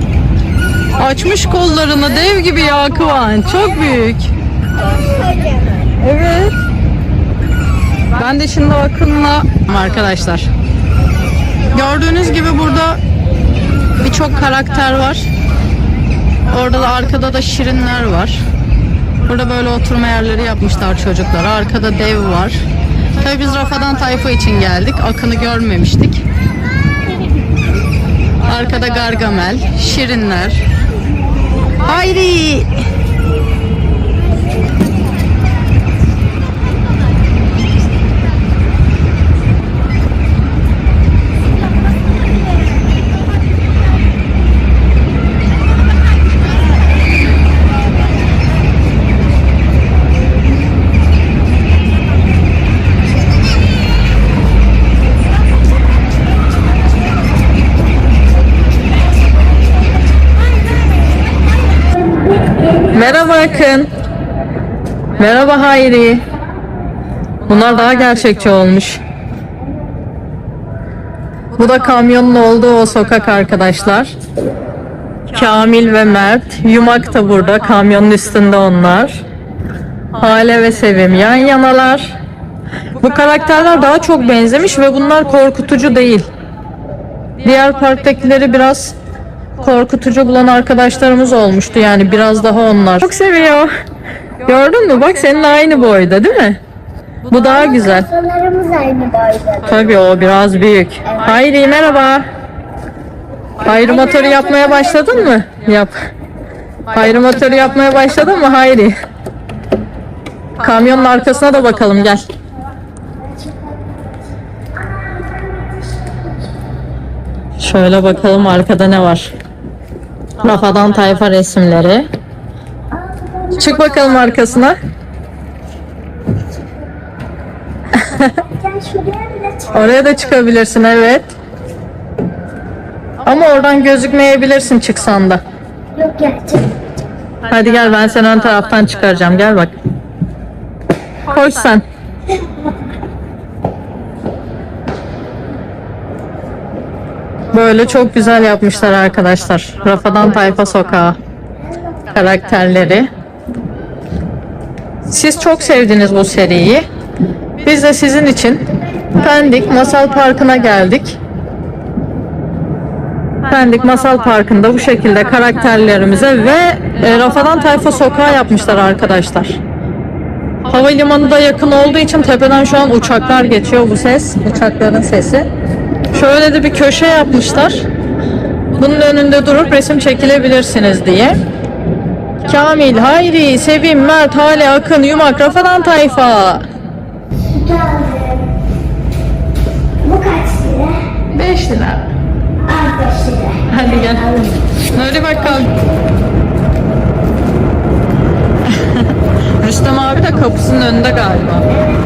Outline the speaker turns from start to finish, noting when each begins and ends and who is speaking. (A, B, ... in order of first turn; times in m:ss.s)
0:00.9-0:04.3 A
0:04.8-0:05.9 B
0:06.0-0:06.5 A
0:08.2-0:10.5 A
0:11.7-0:13.0 A
0:14.0-0:15.3 A
0:16.5-0:18.4 A
0:19.3-0:22.6 A
0:23.2-0:26.2 A
0:28.4-0:30.6 A
0:31.8-0:32.7 A
1:01.9-1:03.2 B
1:02.9-1:03.9 A
1:05.2-1:06.3 A
1:07.4-1:09.0 A
1:11.6-1:14.1 A
1:15.3-1:19.2 A
1:20.2-1:22.1 A
1:22.9-1:26.3 A
1:27.4-1:28.9 A
1:29.6-1:33.7 A
1:34.4-1:36.6 A
1:37.3-1:38.1 A
1:37.3-1:39.8 B
1:39.6-1:42.3 A
1:43.6-1:45.9 A
1:43.8-1:45.2 B
1:46.9-1:49.0 A
1:50.6-1:52.3 A
1:53.4-1:53.9 B
1:54.8-1:56.3 B
1:57.6-1:59.3 A
2:00.4-2:02.1 A
2:02.9-2:03.8 B
2:03.5-2:04.8 A
2:08.0-2:08.3 A
2:08.3-2:10.0 B
2:09.7-2:11.3 A
2:13.2-2:15.4 A
2:15.9-2:16.8 B
2:17.5-2:19.7 A
2:21.2-2:21.8 A
2:27.5-2:31.2 A
2:32.1-2:33.1 A
2:35.0-2:36.9 A
2:37.6-2:41.2 A
2:43.5-2:49.6 A
2:50.7-2:55.5 A
2:56.1-2:57.8 A
2:58.8-3:01.4 A
3:02.4-3:06.6 A
3:07.5-3:08.6 B
3:10.0-3:11.1 B
3:11.3-3:12.1 A
3:12.6-3:14.6 B
3:13.7-3:14.3 A
3:14.9-3:15.7 A
3:15.5-3:15.8 B
3:18.7-3:19.1 A
3:19.6-3:21.7 A